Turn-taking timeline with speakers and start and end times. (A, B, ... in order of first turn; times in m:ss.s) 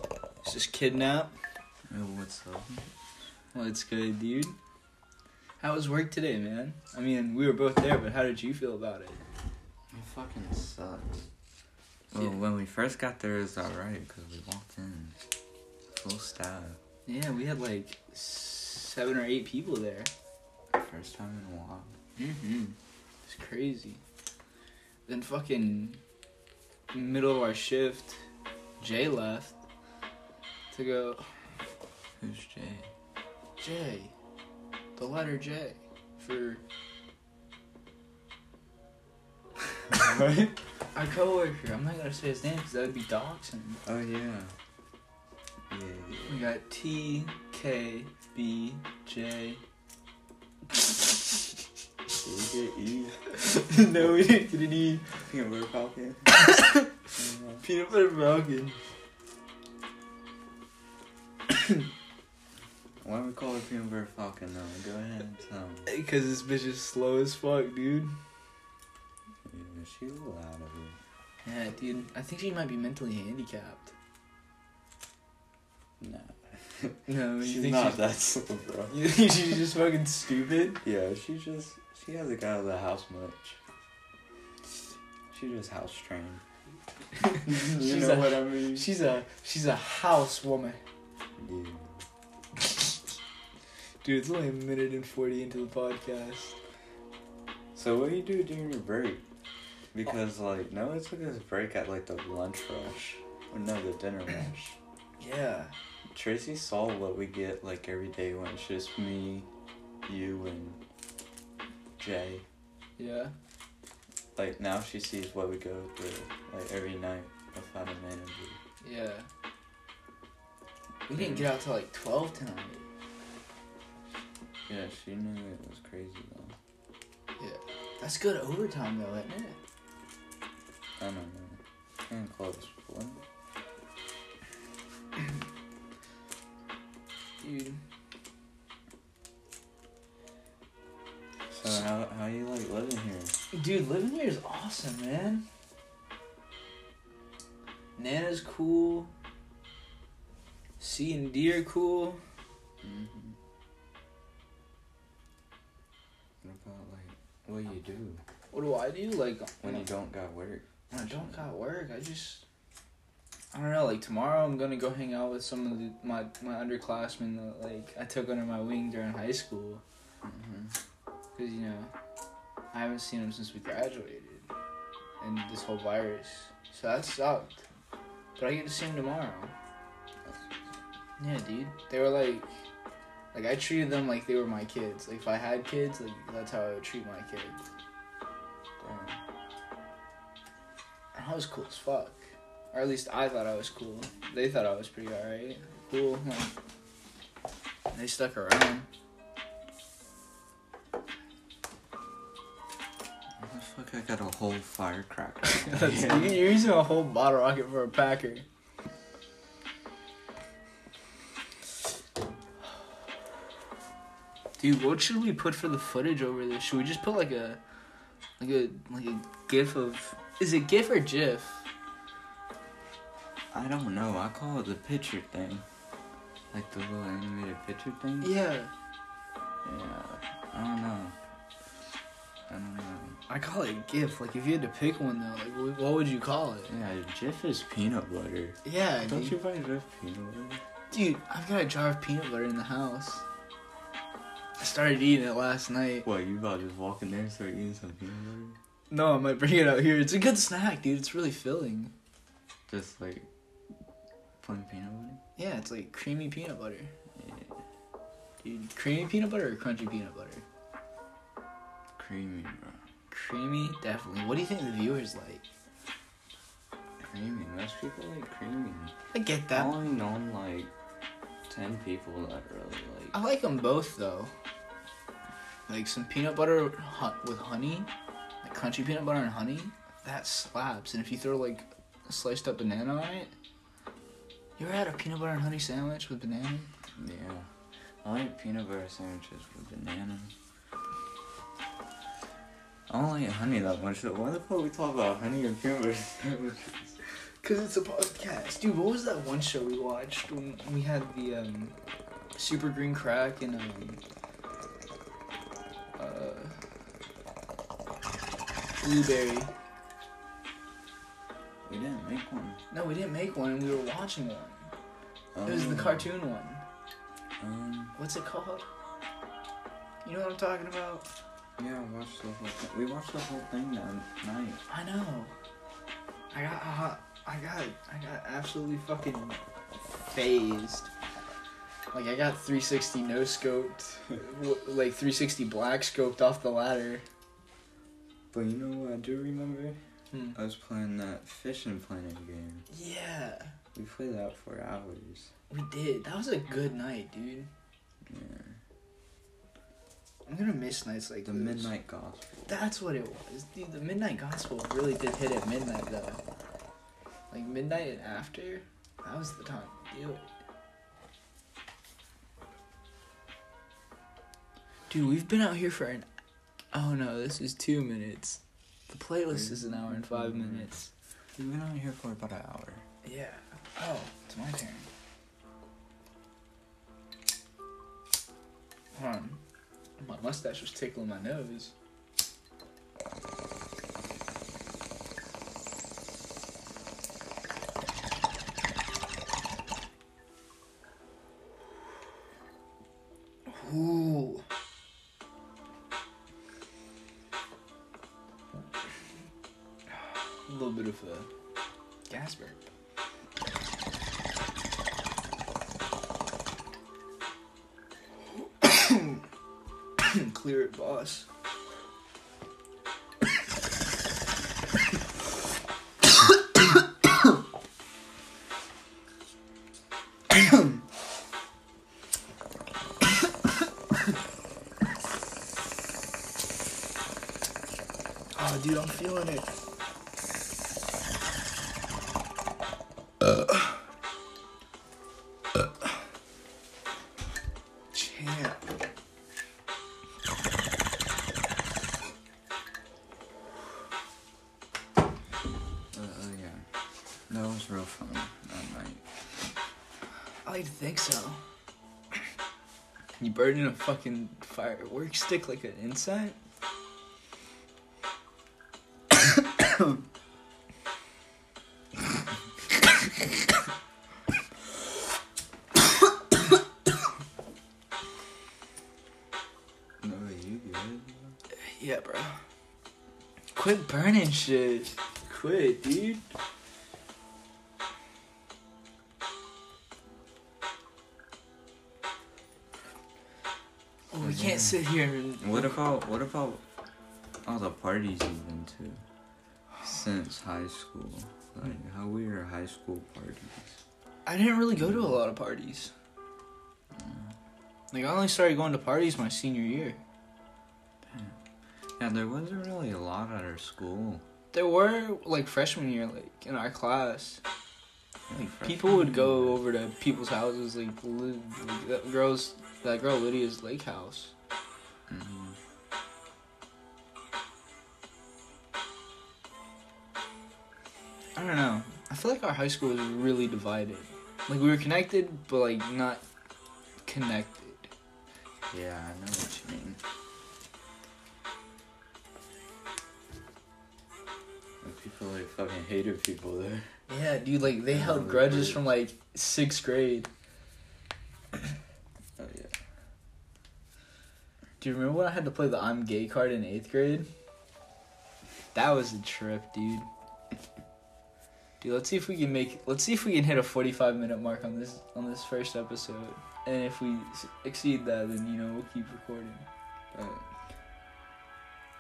0:00.4-0:01.3 A
0:01.9-0:02.9 B
0:03.5-0:04.6 A
0:05.6-0:09.2 A
0:09.9-0:11.3 B
0:12.1-0:15.2 B
0:15.9-0:16.8 B
0:17.1-0:20.1 A
0:20.7-0:22.0 B
0:22.2-0:24.0 A
0:25.1-0:26.0 A
0:26.9-0:28.2 A
0:28.8-0:29.6 A
0:30.7-0:31.3 A
0:32.2-0:32.9 B
0:33.6-0:34.1 A
0:35.0-0:36.6 A
0:39.9-0:40.6 B
0:40.9-0:43.8 A
0:43.8-0:44.5 B
0:45.7-0:46.5 B
0:46.3-0:49.6 A
0:52.2-0:53.3 B
0:53.3-0:55.1 A
0:55.2-0:56.4 B
0:56.3-0:56.9 A
0:57.1-0:57.6 B
0:57.6-0:58.8 A
1:03.0-1:05.9 B
1:05.9-1:08.1 A
1:09.5-1:11.0 B
1:11.4-1:13.9 A
1:16.0-1:19.0 B
1:17.1-1:18.1 A
1:18.9-1:20.8 A
1:20.8-1:23.6 B
1:25.3-1:26.4 B
1:27.2-1:30.8 A
1:27.4-1:28.9 B
1:31.4-1:32.0 B
1:34.0-1:36.6 A
1:37.8-1:39.2 B
1:39.9-1:44.8 B
1:45.2-1:45.7 A
1:46.1-1:49.5 B
1:50.1-1:50.8 B
1:52.0-1:52.4 B
1:53.0-1:53.3 A
1:54.4-1:58.6 B
1:58.8-1:59.3 A
2:01.1-2:02.9 A
2:01.1-2:01.6 B
2:04.7-2:06.6 B
2:07.4-2:09.6 A
2:11.0-2:13.2 B
2:17.4-2:17.8 A
2:21.5-2:23.4 B
2:23.5-2:25.5 A
2:28.0-2:29.1 A
2:30.8-2:32.2 A
2:32.8-2:33.4 B
2:36.4-2:38.2 B
2:38.5-2:39.9 A
2:39.6-2:41.5 B
2:40.9-2:42.4 A
2:43.5-2:49.8 A
2:50.2-2:50.7 B
2:51.4-2:51.9 A
2:52.7-2:54.5 A
2:55.2-2:57.6 A
2:58.4-2:59.5 A
3:00.2-3:00.5 B
3:01.2-3:02.5 A
3:03.3-3:07.6 A
3:08.8-3:09.2 B
3:11.2-3:12.2 A
3:12.7-3:16.5 A
3:17.9-3:18.9 A
3:23.4-3:26.5 B
3:25.5-3:28.5 A
3:34.6-3:37.6 A
3:38.4-3:41.6 A
3:43.5-3:45.6 B
3:46.5-3:48.3 B
3:48.2-3:48.7 A
3:49.6-3:51.2 B
3:52.5-3:53.2 B
3:53.3-3:56.7 A
3:56.7-4:00.6 B
3:58.6-3:59.4 A
4:00.9-4:03.2 A
4:04.6-4:06.1 A
4:06.0-4:08.6 B
4:08.9-4:11.9 A
4:12.7-4:13.3 B
4:14.4-4:15.2 B
4:15.4-4:16.9 A
4:17.2-4:17.6 B
4:18.4-4:20.4 A
4:22.0-4:22.8 B
4:23.1-4:25.4 A
4:27.0-4:29.0 B
4:29.1-4:29.8 A
4:29.5-4:30.7 B
4:31.5-4:33.1 B
4:33.1-4:34.3 A
4:35.7-4:37.9 A
4:38.4-4:43.3 A
4:44.6-4:46.7 A
4:47.0-4:47.5 B
4:48.0-4:50.3 B
4:52.9-4:57.0 B
4:57.4-5:01.8 A
5:02.4-5:04.0 A
5:06.0-5:06.6 A
5:08.8-5:09.5 A
5:11.6-5:12.6 B
5:12.7-5:14.7 A
5:15.4-5:16.1 B
5:15.4-5:16.6 A
5:17.4-5:18.0 B
5:18.0-5:18.6 A
5:20.0-5:21.1 A
5:21.6-5:24.6 B
5:24.7-5:25.3 A
5:26.3-5:29.4 A
5:30.1-5:30.9 A
5:31.9-5:37.0 A
5:38.3-5:39.8 B
5:40.1-5:40.4 A
5:40.3-5:42.7 B
5:42.7-5:43.5 A
5:43.8-5:45.3 B
5:45.5-5:47.5 A
5:48.0-5:48.6 B
5:50.3-5:51.7 A
5:51.2-5:52.4 B
5:52.5-5:56.2 A
5:57.3-6:00.3 A
6:04.9-6:06.1 A
6:06.7-6:10.9 A
6:09.3-6:10.7 B
6:11.4-6:12.8 B
6:13.0-6:14.9 A
6:18.9-6:19.4 A
6:20.0-6:21.7 A
6:33.5-6:34.4 A
6:40.5-6:41.3 A
6:42.1-6:42.7 A
6:48.4-6:49.2 A
6:50.0-6:51.3 A
7:08.3-7:09.5 A
7:17.9-7:18.6 A
7:25.9-7:26.6 B
7:27.3-7:29.0 B
7:30.4-7:31.4 A
7:33.2-7:36.4 A
7:50.0-7:51.4 B
7:51.6-7:52.4 A
7:53.6-7:56.2 A
8:04.1-8:05.8 A
8:04.2-8:04.8 B
8:05.4-8:06.6 B
8:07.4-8:09.0 B
8:09.8-8:13.8 B
8:14.3-8:15.9 A
8:16.9-8:17.4 B
8:17.9-8:20.0 A
8:21.1-8:21.4 B
8:22.0-8:24.2 B
8:24.5-8:27.4 A
8:28.3-8:29.6 B
8:28.3-8:34.3 A
8:35.1-8:35.6 B
8:41.4-8:46.2 A
8:47.1-8:47.9 A
8:48.7-8:50.0 B
8:54.8-8:57.0 B
8:57.1-9:00.3 A
8:57.9-8:58.8 B
9:02.4-9:02.7 B
9:04.8-9:07.3 A
9:08.7-9:10.1 A
9:11.8-9:19.7 A
9:20.1-9:20.4 B